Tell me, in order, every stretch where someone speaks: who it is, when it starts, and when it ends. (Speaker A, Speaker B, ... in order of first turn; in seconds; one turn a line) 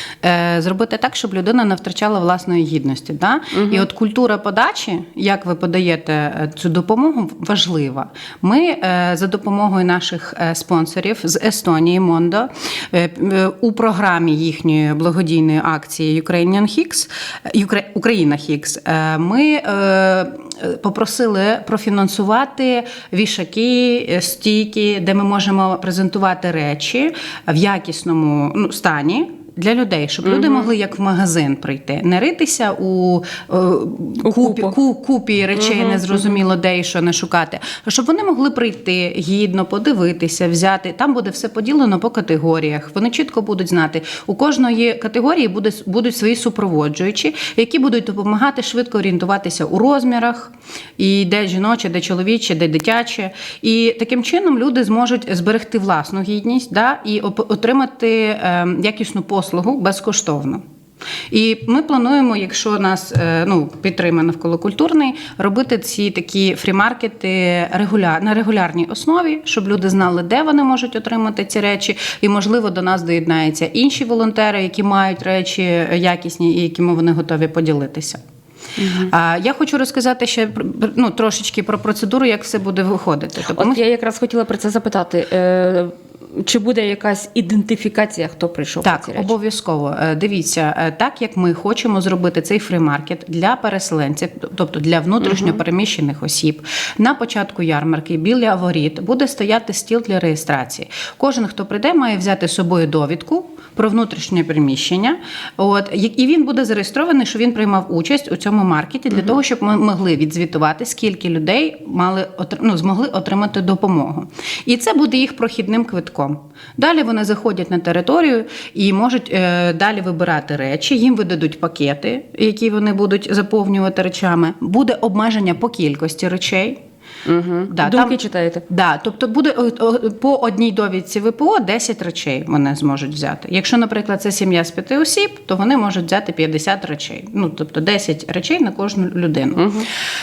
Speaker A: 0.2-60.6
Speaker B: 3.5-3.9
Speaker B: 30.2-30.7
Speaker B: 34.2-34.8
Speaker B: 35.6-36.2
Speaker A: 61.3-78.2
Speaker B: 78.8-79.1
Speaker A: 79.1-83.8
Speaker B: 83.5-89.3
Speaker A: 88.8-126.8
Speaker B: 95.2-95.6
Speaker B: 127.3-128.6
Speaker A: 127.7-128.2
Speaker A: 128.7-139.7
Speaker B: 139.6-139.9